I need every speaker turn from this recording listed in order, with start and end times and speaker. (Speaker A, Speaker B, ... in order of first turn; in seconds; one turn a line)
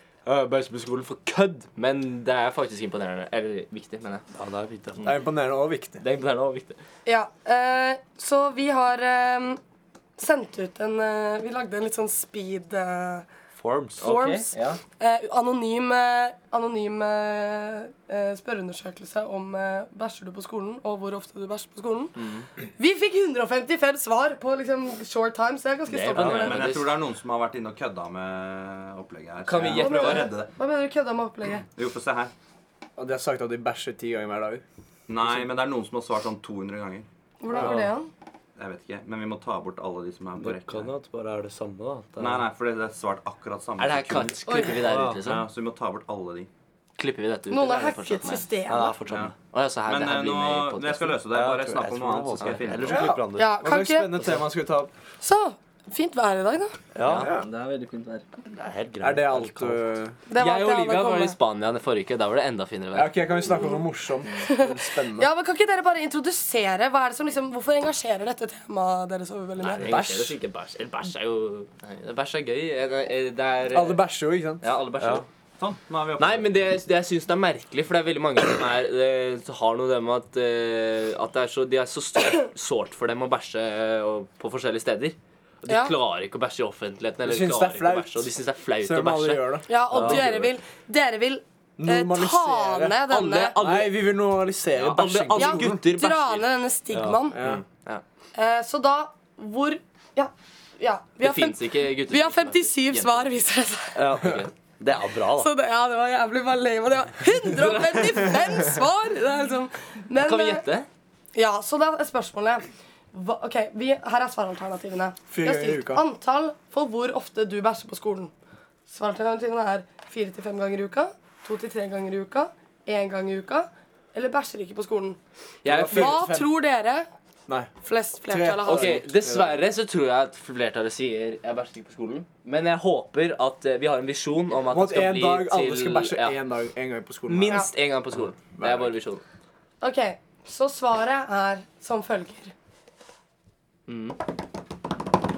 Speaker A: 0.2-4.2
Speaker B: 4.3-5.0
Speaker C: 5.0-6.0
Speaker A: 6.0-6.8
Speaker D: 7.0-9.6
Speaker D: 10.2-13.2
Speaker B: 13.5-14.0
Speaker A: 14.0-14.8
Speaker D: 14.0-22.1
Speaker A: 22.2-22.5
Speaker D: 22.8-26.7
Speaker A: 25.9-27.0
Speaker E: 26.1-30.5
Speaker A: 29.4-30.4
Speaker D: 29.7-31.6
Speaker E: 31.7-32.3
Speaker C: 33.0-34.6
Speaker E: 35.1-37.0
Speaker D: 37.4-38.1
Speaker A: 37.5-37.9
Speaker E: 38.6-40.9
Speaker B: 40.4-42.5
Speaker E: 42.2-46.5
Speaker A: 43.8-45.5
Speaker D: 44.5-44.8
Speaker B: 44.7-45.2
Speaker A: 47.0-48.4
Speaker D: 47.5-49.0
Speaker B: 48.7-49.3
Speaker E: 49.1-53.1
Speaker A: 49.5-51.2
Speaker B: 51.3-53.5
Speaker C: 52.9-54.9
Speaker D: 53.4-54.1
Speaker D: 55.2-56.8
Speaker B: 56.9-57.3
Speaker A: 57.0-58.2
Speaker C: 57.1-57.4
Speaker B: 58.5-60.0
Speaker C: 59.0-60.2
Speaker D: 60.3-61.4
Speaker A: 60.4-63.6
Speaker C: 62.9-65.3
Speaker D: 64.5-69.9
Speaker A: 69.6-74.0
Speaker C: 69.8-70.3
Speaker C: 73.7-74.7
Speaker A: 74.6-75.3
Speaker E: 75.6-76.5
Speaker A: 76.2-90.4
Speaker D: 85.7-85.9
Speaker C: 87.2-88.3
Speaker C: 88.8-90.1
Speaker D: 89.7-93.6
Speaker B: 89.9-90.3
Speaker C: 91.8-93.0
Speaker A: 93.1-94.0
Speaker C: 93.6-95.8
Speaker A: 94.7-96.4
Speaker D: 95.3-97.4
Speaker B: 96.9-97.2
Speaker C: 97.3-97.6
Speaker A: 97.4-98.0
Speaker D: 98.4-104.0
Speaker A: 101.2-103.3
Speaker B: 104.0-105.5
Speaker A: 104.2-104.5
Speaker D: 105.3-110.6
Speaker A: 107.5-108.6
Speaker A: 110.2-110.9
Speaker D: 111.3-118.3
Speaker C: 115.3-116.0
Speaker D: 118.9-125.2
Speaker A: 125.6-126.3
Speaker C: 125.7-126.5
Speaker D: 125.9-127.1
Speaker D: 127.8-129.0
Speaker C: 128.3-129.6
Speaker A: 128.6-136.4
Speaker C: 134.7-137.7
Speaker A: 137.3-139.2
Speaker C: 138.5-138.9
Speaker D: 139.8-142.5
Speaker A: 143.9-144.2